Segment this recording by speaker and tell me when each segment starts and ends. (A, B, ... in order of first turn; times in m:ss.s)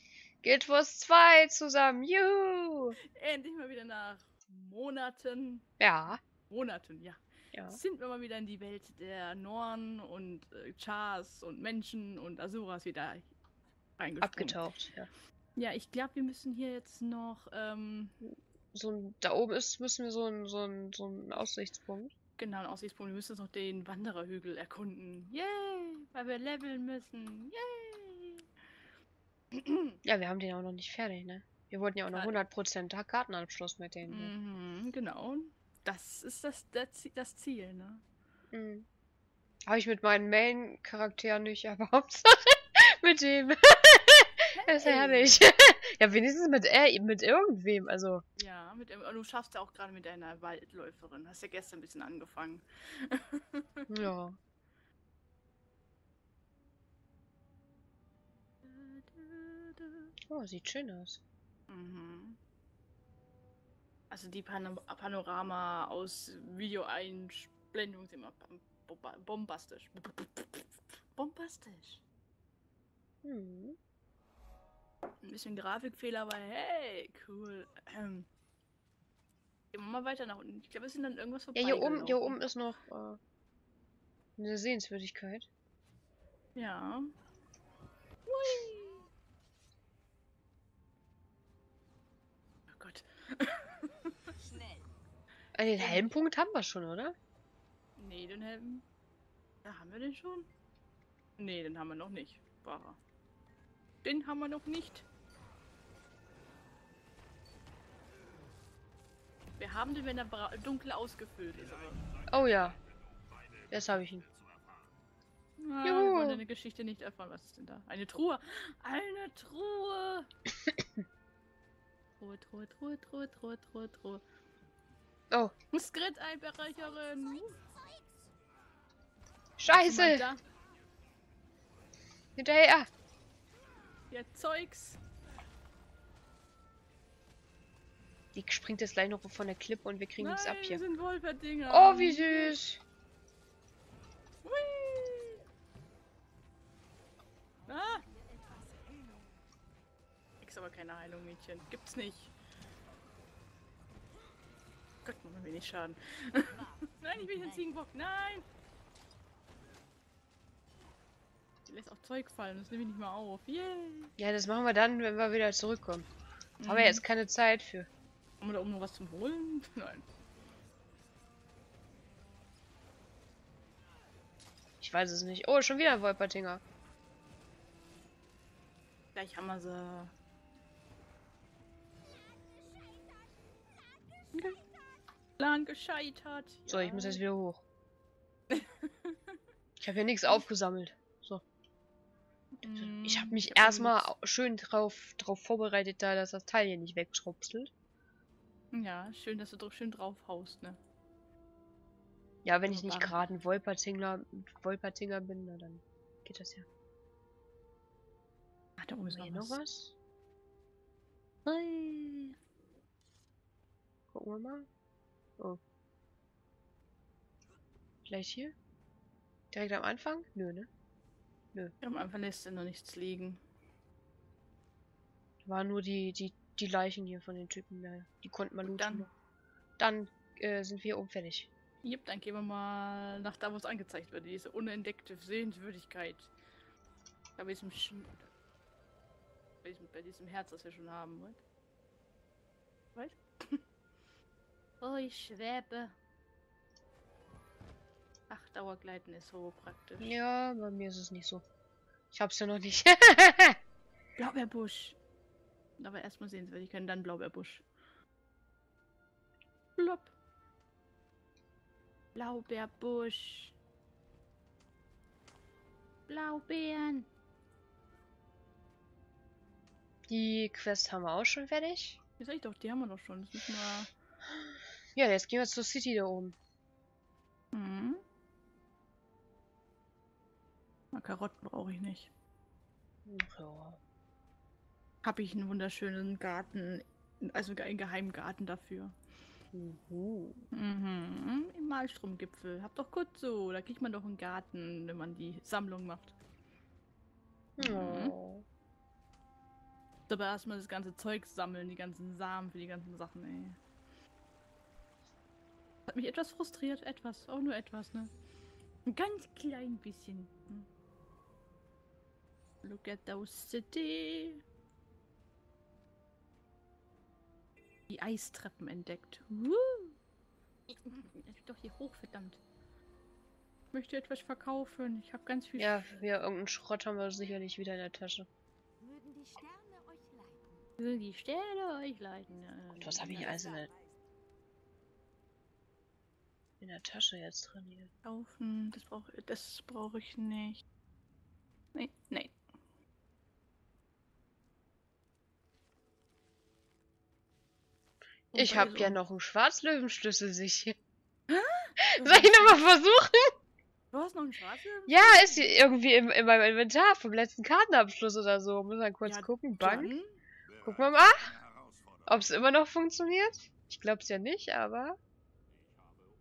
0:00.4-0:03.0 A
0:03.1-0:05.7 B
0:05.8-0:06.2 A
0:06.5-0:13.3 B
0:07.5-0:07.8 A
0:14.0-0:14.6 B
0:14.2-0:15.1 A
0:15.6-0:18.2 B
0:18.2-0:22.1 A
0:22.4-0:28.5 B
0:29.5-0:30.0 B
0:30.0-0:34.3 A
0:32.1-0:32.4 B
0:34.1-0:38.0 B
0:38.5-0:38.9 A
0:39.7-0:48.2 A
0:44.5-0:45.3 B
0:48.4-0:54.0 B
0:53.9-0:54.4 A
0:58.6-1:00.1 B
1:00.3-1:01.2 A
1:01.7-1:02.4 B
1:04.1-1:12.0 B
1:13.2-1:13.8 A
1:15.2-1:18.3 B
1:19.7-1:22.4 B
1:21.5-1:23.2 A
1:24.4-1:25.5 A
1:26.5-1:27.1 B
1:28.2-1:29.1 B
1:32.7-1:34.3 B
1:34.4-1:34.9 C
1:35.5-1:37.1 A
1:35.8-1:36.1 B
1:38.0-1:38.8 B
1:39.6-1:40.5 B
1:41.4-1:43.0 B
1:44.0-1:45.0 B
1:49.6-1:52.0 B
1:52.3-1:52.8 A
1:53.7-1:54.3 A
1:55.6-2:00.3 B
1:55.8-1:56.4 A
2:02.2-2:04.2 B
2:05.7-2:07.6 B
2:06.7-2:08.3 C
2:09.6-2:10.2 A
2:09.8-2:10.4 B
2:12.4-2:12.9 A
2:14.1-2:15.0 B
2:18.3-2:20.8 A
2:20.2-2:22.6 B
2:21.7-2:22.8 A
2:24.4-2:25.4 B
2:27.6-2:29.4 C
2:27.7-2:28.0 B
2:30.4-2:32.3 B
2:35.0-2:38.4 B
2:36.5-2:37.7 C
2:41.7-2:44.1 B
2:44.2-2:46.1 A
2:46.6-2:47.0 B
2:46.6-2:47.9 A
2:48.4-2:50.0 B
2:54.8-2:56.6 A
2:59.2-3:00.1 B
3:02.1-3:04.8 C
3:05.4-3:07.2 B
3:06.7-3:07.6 A
3:08.5-3:09.2 B
3:09.8-3:11.4 A
3:12.6-3:14.1 B
3:12.8-3:17.7 A
3:18.7-3:20.8 B
3:22.4-3:26.7 A
3:22.7-3:23.2 B
3:28.8-3:29.6 B
3:29.1-3:29.9 A
3:31.4-3:32.4 B
3:34.1-3:34.7 A
3:38.1-3:38.6 A
3:39.5-3:40.7 A
3:41.8-3:43.4 B
3:45.4-3:49.1 A
3:48.6-3:49.1 B
3:49.8-3:51.5 A
3:51.8-3:56.3 B
3:57.4-3:58.2 B
3:59.6-4:01.4 B
4:03.0-4:03.6 B
4:04.8-4:06.0 B
4:08.3-4:10.2 B
4:10.0-4:11.4 A
4:12.1-4:13.6 A
4:14.2-4:15.0 B
4:15.8-4:17.6 B
4:19.8-4:20.1 B
4:22.1-4:23.5 B
4:26.1-4:27.1 B
4:30.1-4:32.0 A
4:32.2-4:33.9 B
4:34.4-4:36.4 A
4:37.5-4:38.0 B
4:40.9-4:42.1 B
4:43.0-4:43.8 A
4:45.0-4:49.0 B
4:49.5-4:50.4 A
4:50.5-4:56.1 B
4:57.6-4:58.4 A
4:57.6-4:58.1 B
5:00.1-5:03.6 B
5:05.9-5:08.1 B
5:08.8-5:10.7 B
5:12.6-5:14.4 B
5:17.9-5:20.0 B
5:20.7-5:22.4 B
5:23.7-5:25.8 B
5:25.6-5:28.3 A
5:28.8-5:30.7 C
5:30.8-5:33.3 B
5:32.8-5:33.7 A
5:32.9-5:34.0 C
5:36.6-5:37.9 A
5:38.0-5:40.6 B
5:41.8-5:42.4 B
5:48.3-5:49.0 B
5:48.3-5:50.8 A
5:51.3-5:52.6 B
5:51.8-5:53.3 A
5:53.9-5:55.7 B
5:54.9-5:59.9 A
5:59.0-6:00.1 B
6:00.6-6:01.4 A
6:02.1-6:05.0 A